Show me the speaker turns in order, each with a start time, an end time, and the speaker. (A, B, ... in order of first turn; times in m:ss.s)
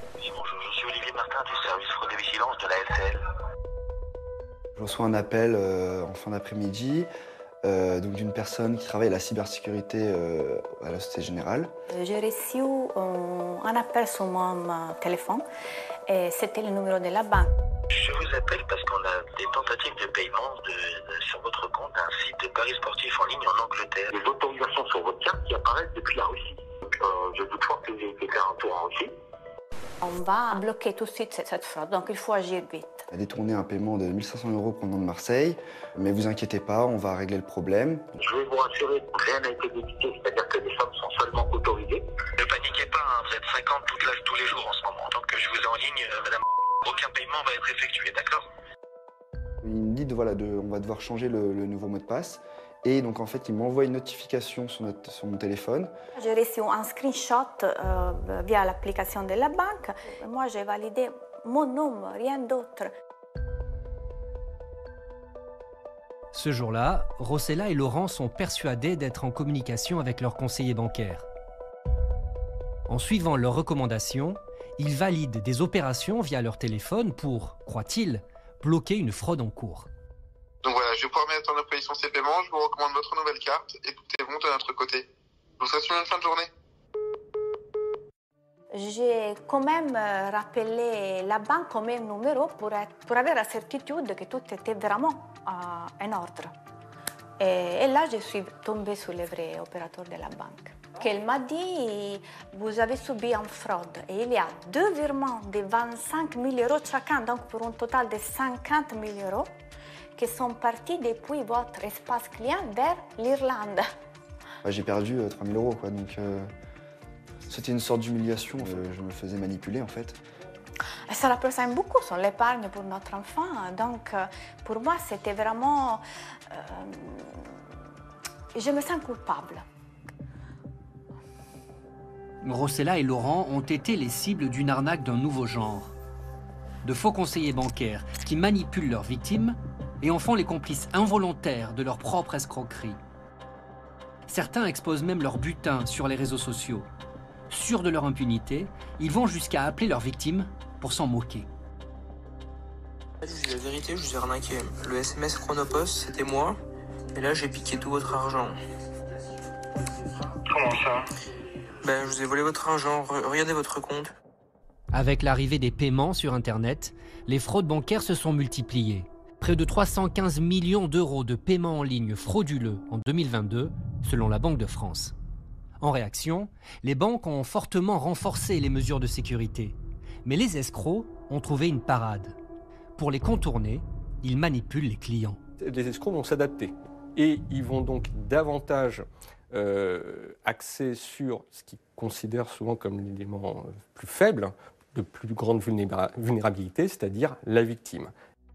0:00.2-0:03.2 A
0:04.8-0:07.1 B
0:07.6-0:11.7 B
0:11.9-0:15.4 C
0:16.1-0:17.5 C
0:17.9-0:29.1 A
0:30.0-0:33.1 C
0:33.1-0:38.1 B
0:38.2-0:48.4 A
0:49.6-0:55.9 B
0:56.2-1:02.9 C
1:06.3-1:11.3 D
1:12.9-1:19.9 D
1:20.6-1:25.1 E
1:25.6-1:26.5 E
1:28.7-1:36.5 C
1:37.4-1:49.5 C
1:50.2-1:53.9 C
1:54.6-1:56.5 B
1:57.5-2:00.2 B
2:01.1-2:07.5 C
2:08.5-2:09.6 C
2:12.4-2:15.9 D
2:16.8-2:23.0 D
2:24.3-2:26.9 D
2:27.5-2:31.5 D
2:33.2-2:36.6 F
2:37.1-2:38.6 F
2:40.5-2:41.1 A
2:41.8-2:44.1 F
2:44.9-2:55.2 D
2:55.8-3:02.4 D
3:03.0-3:05.4 D
3:05.6-3:18.1 G